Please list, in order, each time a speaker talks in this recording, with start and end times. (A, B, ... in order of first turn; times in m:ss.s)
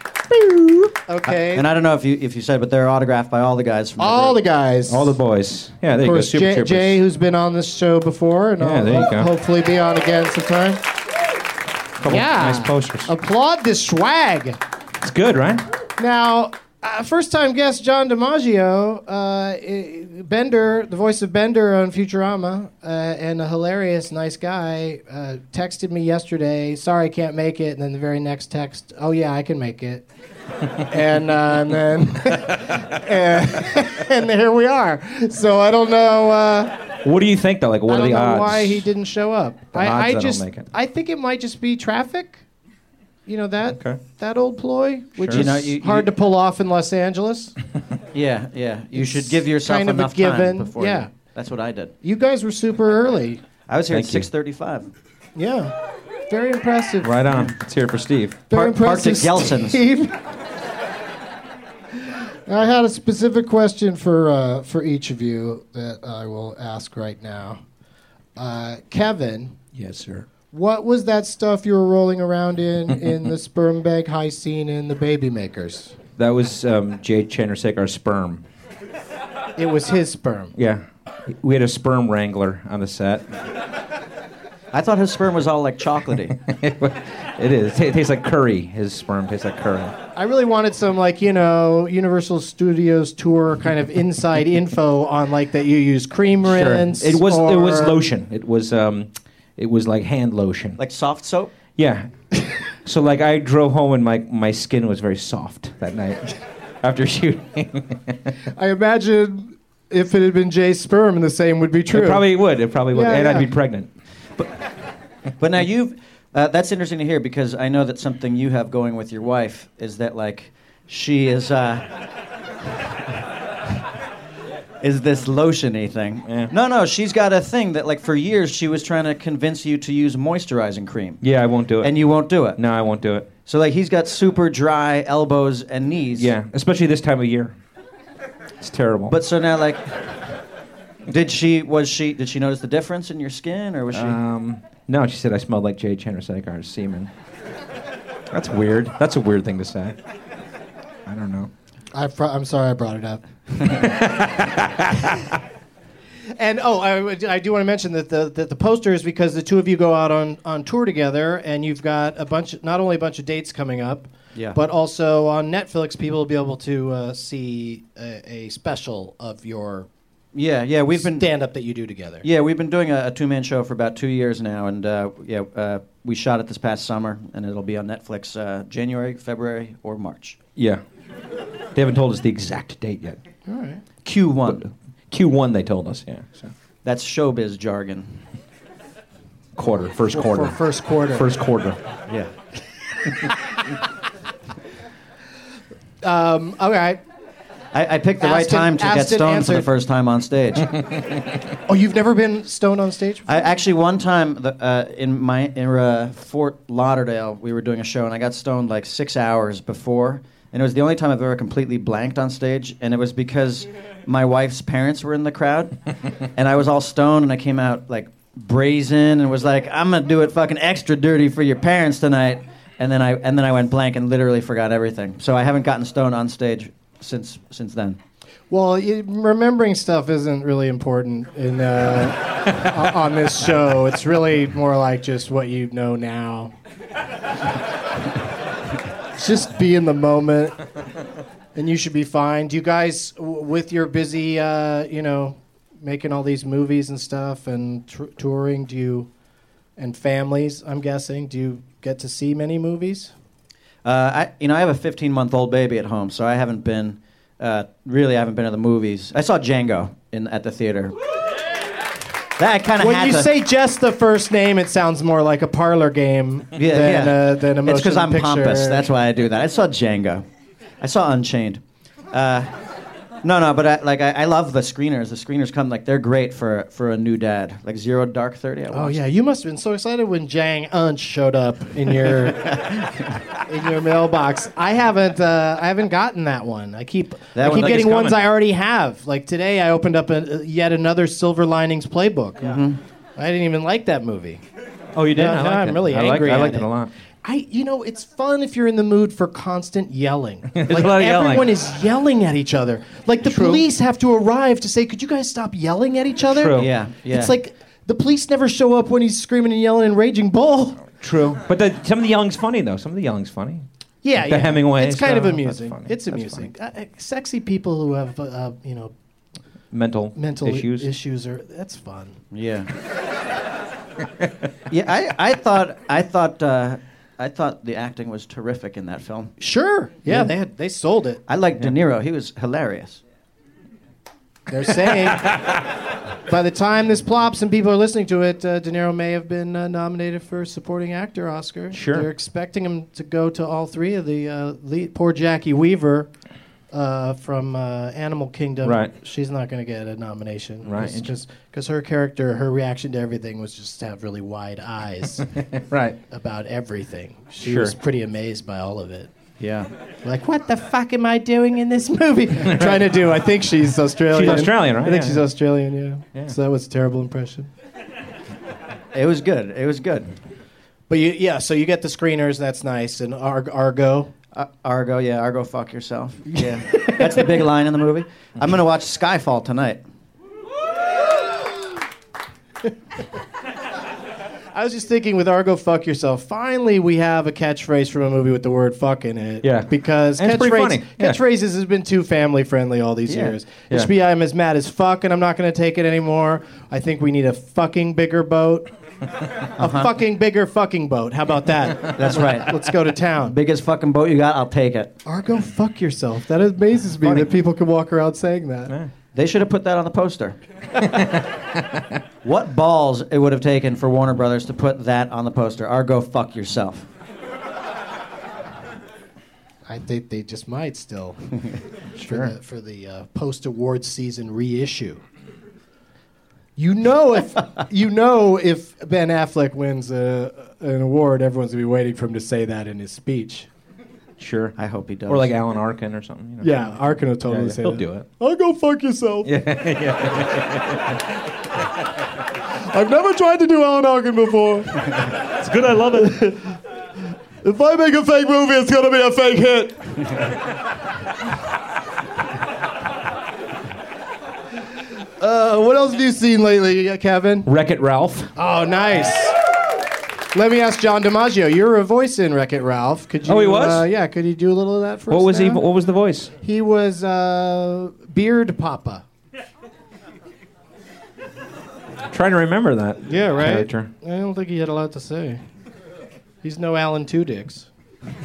0:00.3-0:01.6 A
0:01.3-0:04.4 B
0:04.0-0:05.2 A
0:04.9-0:07.0 C
0:06.0-0:10.8 A
0:08.6-0:09.3 C
0:12.0-0:13.1 C
0:12.0-0:14.6 A
0:15.0-0:15.6 C
0:16.0-0:30.0 A
0:30.8-0:36.8 A
0:37.0-0:38.9 C
0:37.9-0:42.4 A
0:39.7-0:40.7 C
0:43.2-0:47.5 A
0:43.8-0:44.0 C
0:45.2-0:45.6 C
0:45.3-0:46.1 B
0:48.1-0:51.9 B
0:48.9-0:51.1 A
0:52.0-0:53.4 A
0:53.7-0:54.9 B
0:53.9-0:54.3 C
0:55.4-0:55.7 A
0:56.3-0:57.3 A
0:57.0-0:58.4 C
0:58.5-1:00.1 A
0:58.5-0:59.8 B
1:02.5-1:07.6 A
1:08.4-1:09.6 A
1:09.8-1:10.3 C
1:10.5-1:15.9 A
1:16.2-1:18.4 C
1:19.6-1:20.5 A
1:20.6-1:23.3 C
1:24.7-1:26.4 B
1:26.4-1:30.0 C
1:30.1-1:38.0 A
1:36.4-1:40.8 C
1:40.8-1:41.5 B
1:41.8-1:48.2 C
1:48.5-1:52.3 A
1:51.9-1:53.9 C
1:52.9-1:53.5 A
1:55.4-2:01.9 B
2:04.8-2:11.2 B
2:06.3-2:06.5 C
2:11.2-2:11.9 C
2:11.8-2:12.6 B
2:12.5-2:13.3 C
2:13.4-2:16.3 B
2:16.2-2:17.5 C
2:18.6-2:19.2 C
2:19.1-2:20.1 B
2:21.1-2:24.2 B
2:23.9-2:27.1 C
2:28.3-2:30.0 C
2:31.0-2:31.5 C
2:31.9-2:33.9 A
2:33.6-2:35.2 C
2:36.4-2:49.9 A
2:50.3-2:51.3 B
2:50.9-2:52.2 A
2:52.2-3:00.4 B
3:00.6-3:00.8 C
3:01.8-3:03.2 C
3:03.4-3:03.8 A
3:04.0-3:04.7 B
3:04.5-3:06.5 C
3:06.8-3:08.2 B
3:09.6-3:10.6 C
3:10.1-3:11.3 A
3:11.1-3:11.8 C
3:16.0-3:17.0 A
3:17.7-3:20.8 B
3:18.2-3:19.7 A
3:21.7-3:23.5 A
3:23.3-3:35.8 B
3:36.3-3:48.0 B
3:48.5-3:56.5 A
3:59.1-4:00.6 A
4:01.5-4:09.1 A
4:09.8-4:13.1 A
4:13.8-4:21.0 B
4:22.4-4:23.3 B
4:22.8-4:28.9 A
4:26.6-4:30.2 B
4:30.8-4:32.5 B
4:33.2-4:39.0 B
4:38.7-4:52.6 A
4:42.4-4:43.1 B
4:47.4-4:47.9 B
4:47.4-4:48.2 C
4:52.4-4:52.8 B
4:53.2-4:54.4 A
4:54.9-4:56.9 C
4:55.1-4:56.7 A
4:57.2-5:10.9 A
5:00.5-5:01.4 C
5:00.7-5:01.4 B
5:03.2-5:03.6 C
5:06.3-5:06.7 C
5:06.6-5:07.3 B
5:11.0-5:16.5 C
5:14.0-5:18.9 A
5:19.7-5:20.9 C
5:20.2-5:22.2 A
5:22.3-5:22.7 B
5:24.7-5:29.3 B
5:29.4-5:31.2 A
5:31.3-5:33.0 B
5:34.5-5:35.5 A
5:36.3-5:46.1 A
5:41.7-5:42.1 C
5:46.7-5:55.3 A
5:48.6-5:48.9 C
5:50.6-5:51.1 C
5:55.5-5:56.0 C
5:56.1-5:59.1 A
5:57.4-5:57.7 C
5:59.4-5:59.7 B
6:00.0-6:07.5 A
6:02.4-6:03.0 C
6:04.1-6:05.2 C
6:08.9-6:10.1 B
6:10.9-6:14.1 A
6:14.3-6:19.8 B
6:16.7-6:17.0 A
6:24.5-6:38.7 A
6:29.4-6:31.2 C
6:33.1-6:33.4 B
6:39.6-6:43.4 A
6:39.6-6:39.9 B
6:41.9-6:42.6 B
6:43.3-6:44.9 B
6:45.0-6:48.7 A
6:47.0-6:47.3 B
6:49.1-6:50.4 B
6:50.8-6:51.2 C
6:52.2-6:56.9 B
6:59.6-7:05.0 A
7:02.0-7:02.3 C
7:06.6-7:13.5 A
7:14.2-7:14.6 C
7:14.6-7:15.3 B
7:15.1-7:18.0 C
7:16.4-7:19.3 A
7:19.2-7:21.0 C
7:22.5-7:25.1 A
7:25.4-7:26.2 C
7:25.9-7:26.5 A
7:27.4-7:29.8 A
7:35.2-7:37.5 A
7:37.4-7:38.3 C
7:38.4-7:39.3 A
7:40.3-7:45.6 A
7:43.2-7:43.9 C
7:45.1-7:46.3 C
7:46.4-7:49.0 A
7:52.1-7:53.9 C
7:53.0-7:55.4 A
7:56.4-7:57.7 A